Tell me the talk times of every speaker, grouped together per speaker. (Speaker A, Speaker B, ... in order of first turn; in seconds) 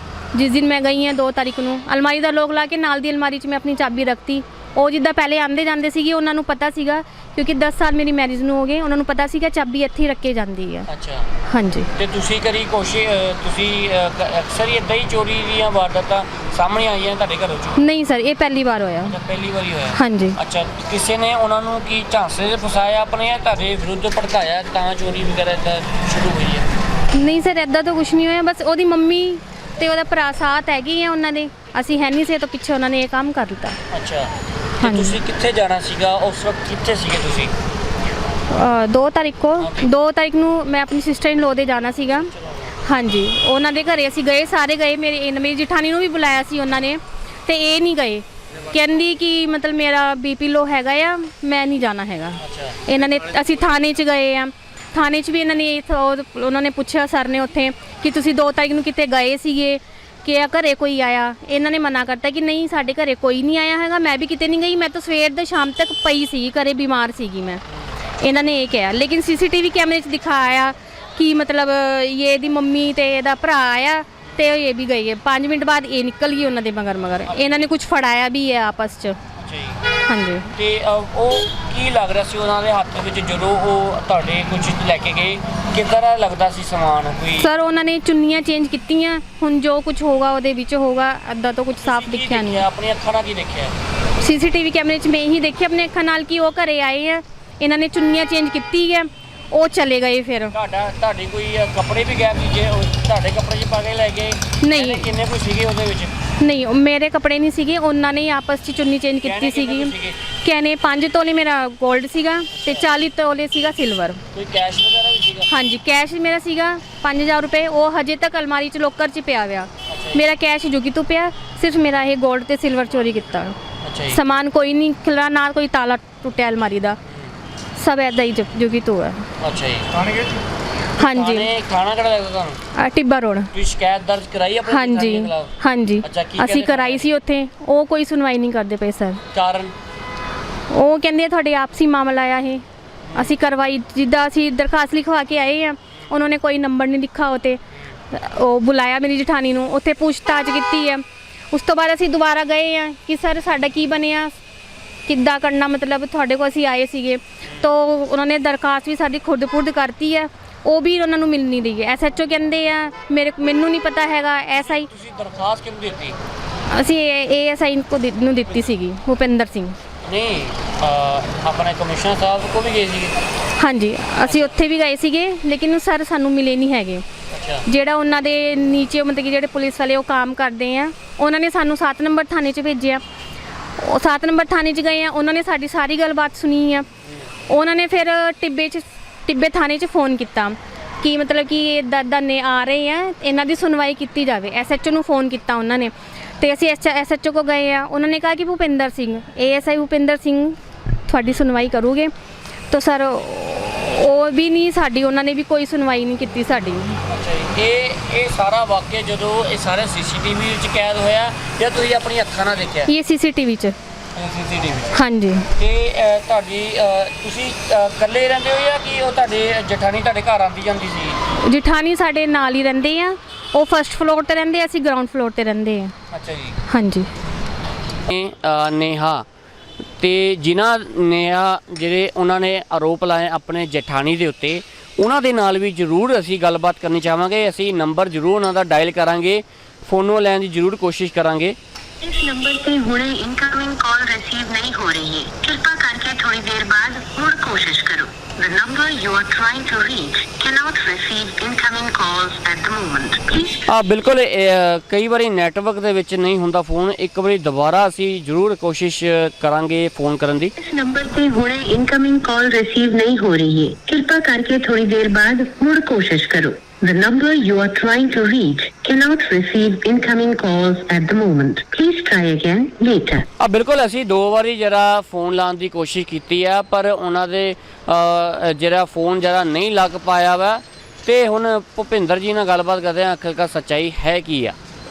Speaker A: 0.3-10.9, 11.5-11.9, 17.8-19.2, 19.9-20.4, 27.1-33.8, 34.8-35.2, 38.5-42.3, 42.8-67.6, 68.2-79.2, 80.1-80.5, 87.4-92.7, 94.2-100.5, 104.6-105.1, 106.4-114.2, 115.5-123.6, 124.1-127.0, 127.8-129.3, 131.0-131.5, 132.8-133.5, 134.7-139.2, 140.7-142.6, 143.2-147.6, 148.1-154.4, 155.1-164.9, 166.7-169.8, 173.6-177.0, 177.7-183.0, 183.8-186.9, 187.5-202.1, 202.7-207.0, 212.9-213.8, 214.9-215.5, 221.5-225.9, 226.7-227.1
Speaker B: 10.9-11.3, 11.9-17.8, 19.1-26.7, 33.9-37.5, 39.6-39.9, 42.1-42.8, 52.4-53.0, 77.3-77.7, 79.4-79.9, 80.5-87.5, 91.8-93.7, 100.5-106.1, 109.2-110.2, 112.5-112.9, 114.3-115.5, 119.9-120.2, 123.8-124.2, 127.1-127.3, 129.4-130.4, 131.0-132.6, 133.5-137.1, 139.3-139.7, 143.1-143.4, 157.4-157.7, 164.6-166.2, 170.1-173.1, 174.2-174.6, 177.3-177.6, 207.1-212.9, 214.2-214.9, 215.6-221.2, 226.1-226.6, 228.1-229.2, 230.0-241.6, 253.7-260.5, 273.4-284.6
Speaker C: 242.0-253.6, 260.6-273.3